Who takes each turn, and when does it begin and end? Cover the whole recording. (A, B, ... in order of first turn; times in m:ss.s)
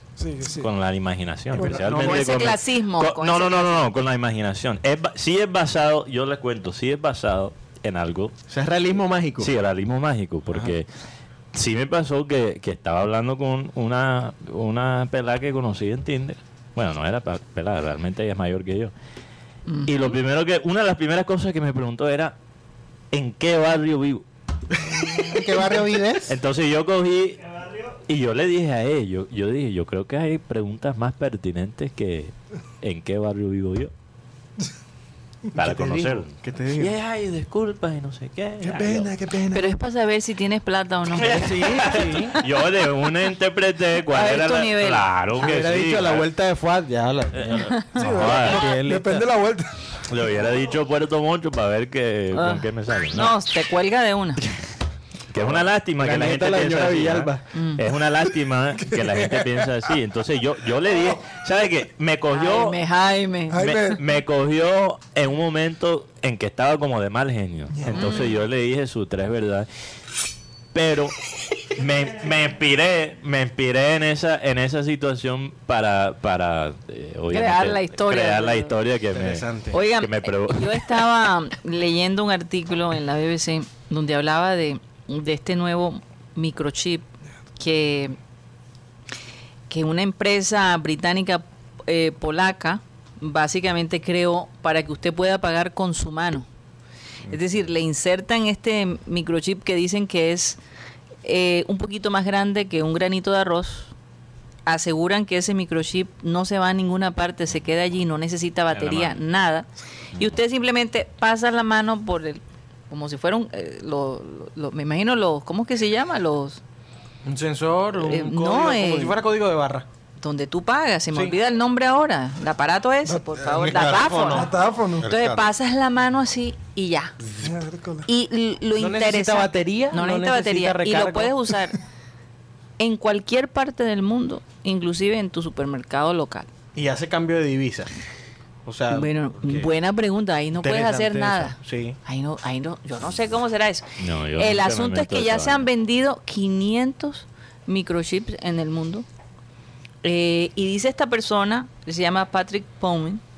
0:00.2-0:00.7 A
0:00.5-0:08.4 B
0:01.5-0:01.8 A
0:01.5-0:02.6 C
0:02.0-0:03.8 D
0:08.5-0:09.5 C
0:09.4-0:10.9 B
0:11.5-0:18.9 B
0:19.7-0:20.2 D
0:19.9-0:22.4 B
0:23.1-0:24.2 B
0:25.3-0:26.4 E
0:26.3-0:33.9 B
0:35.5-0:39.1 B
0:35.6-0:36.9 C
0:38.6-0:39.8 A
0:39.5-0:42.4 D
0:41.2-0:46.3 B
0:41.2-0:42.4 C
0:44.1-0:45.1 D
0:45.4-0:49.3 C
0:47.4-0:48.6 B
0:47.9-0:49.7 A
0:50.1-0:53.3 B
0:52.3-0:54.4 D
0:55.3-1:02.8 B
0:55.4-0:57.4 C
0:57.5-0:57.8 D
0:58.9-0:59.6 A
1:02.3-1:03.6 D
1:03.5-1:04.0 A
1:03.6-1:09.7 B
1:07.8-1:08.1 A
1:07.9-1:08.4 D
1:10.7-1:11.2 B
1:11.7-1:19.5 B
1:17.3-1:18.7 D
1:19.1-1:19.8 C
1:19.7-1:27.0 D
1:20.0-1:21.0 B
1:27.6-1:28.2 D
1:29.7-1:36.5 D
1:37.3-1:40.6 D
1:41.2-1:43.9 D
1:44.6-1:56.6 D
1:48.7-1:49.2 B
1:57.2-1:59.9 C
1:58.0-1:59.2 D
2:00.2-2:04.5 D
2:03.4-2:05.5 E
2:04.2-2:05.1 A
2:05.0-2:07.1 D
2:07.4-2:08.1 A
2:08.1-2:11.8 D
2:08.8-2:11.4 C
2:12.8-2:16.5 D
2:16.8-2:17.9 C
2:18.6-2:19.7 C
2:18.9-2:29.1 D
2:20.6-2:22.0 C
2:24.0-2:25.6 B
2:30.0-2:33.2 D